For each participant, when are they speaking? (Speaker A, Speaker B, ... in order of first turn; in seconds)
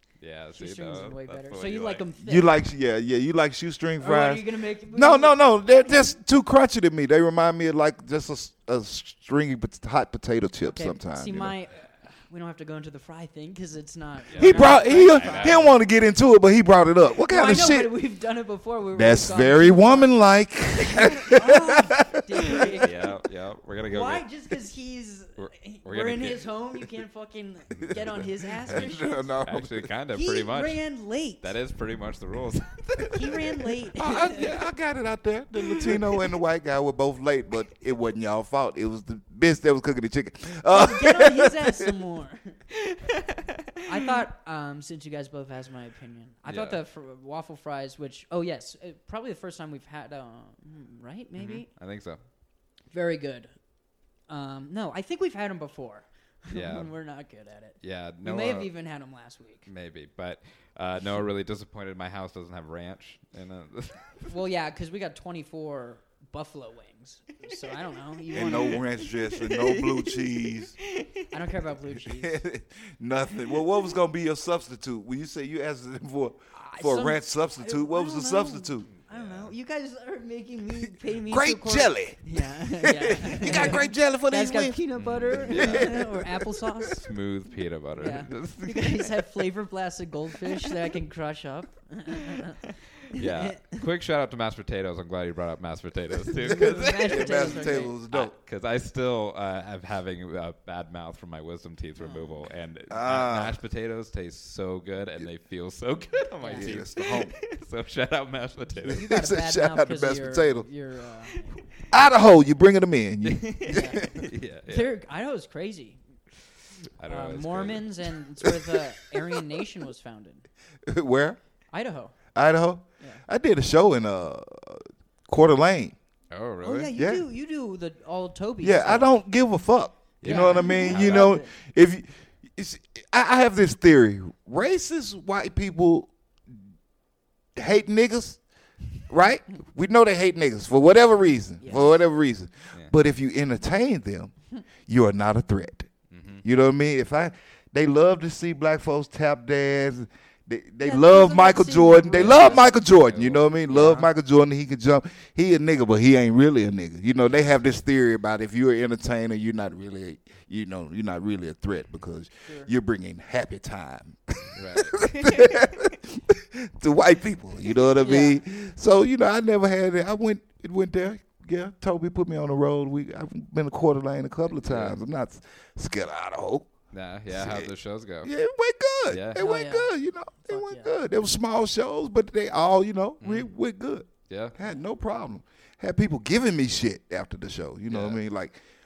Speaker A: 0.2-2.0, 14.3-15.7, 22.8-24.2, 25.4-26.5, 29.4-30.8, 31.4-33.9, 42.8-44.1, 46.5-46.8, 51.4-52.2, 56.5-56.9, 57.8-58.7, 59.6-64.3, 68.3-68.8, 69.4-70.2, 70.9-71.5, 78.9-79.5, 83.4-83.9, 84.9-86.1, 87.0-89.3, 92.3-109.0, 111.3-111.6, 113.2-114.9, 117.0-118.0, 126.3-126.9, 130.2-131.4, 146.1-146.4, 152.1-154.1, 164.5-165.9, 174.5-175.0, 176.9-178.3, 179.1-179.4, 183.2-183.5, 184.3-184.5, 187.9-188.2
Speaker B: 0.5-2.6, 4.0-6.1, 10.6-15.7, 17.3-20.1, 20.8-23.2, 23.9-29.4, 30.1-31.5, 33.0-34.6, 40.7-42.6, 43.8-51.7, 52.9-53.5, 54.3-59.7, 64.3-68.9, 71.3-72.4, 76.5-87.1, 88.0-93.9, 96.4-97.9, 102.0-102.4, 106.4-106.8, 108.8-111.7, 113.7-116.0, 117.1-120.5, 121.7-122.2, 126.6-129.1, 130.2-131.5, 141.6-141.9, 150.8-152.7, 168.0-168.4, 179.3-180.9
Speaker C: 2.2-11.5, 14.3-17.9, 18.9-22.7, 27.7-29.9, 34.0-41.9, 68.3-70.8, 72.0-78.9, 81.3-87.0, 96.5-98.3, 102.9-103.6, 106.5-107.3, 108.8-110.7, 111.9-114.2, 120.9-121.4, 122.3-126.0, 127.0-127.2, 128.6-136.1, 137.6-138.4, 139.1-144.3, 144.8-145.9, 146.4-176.7, 177.3-177.7, 178.2-188.6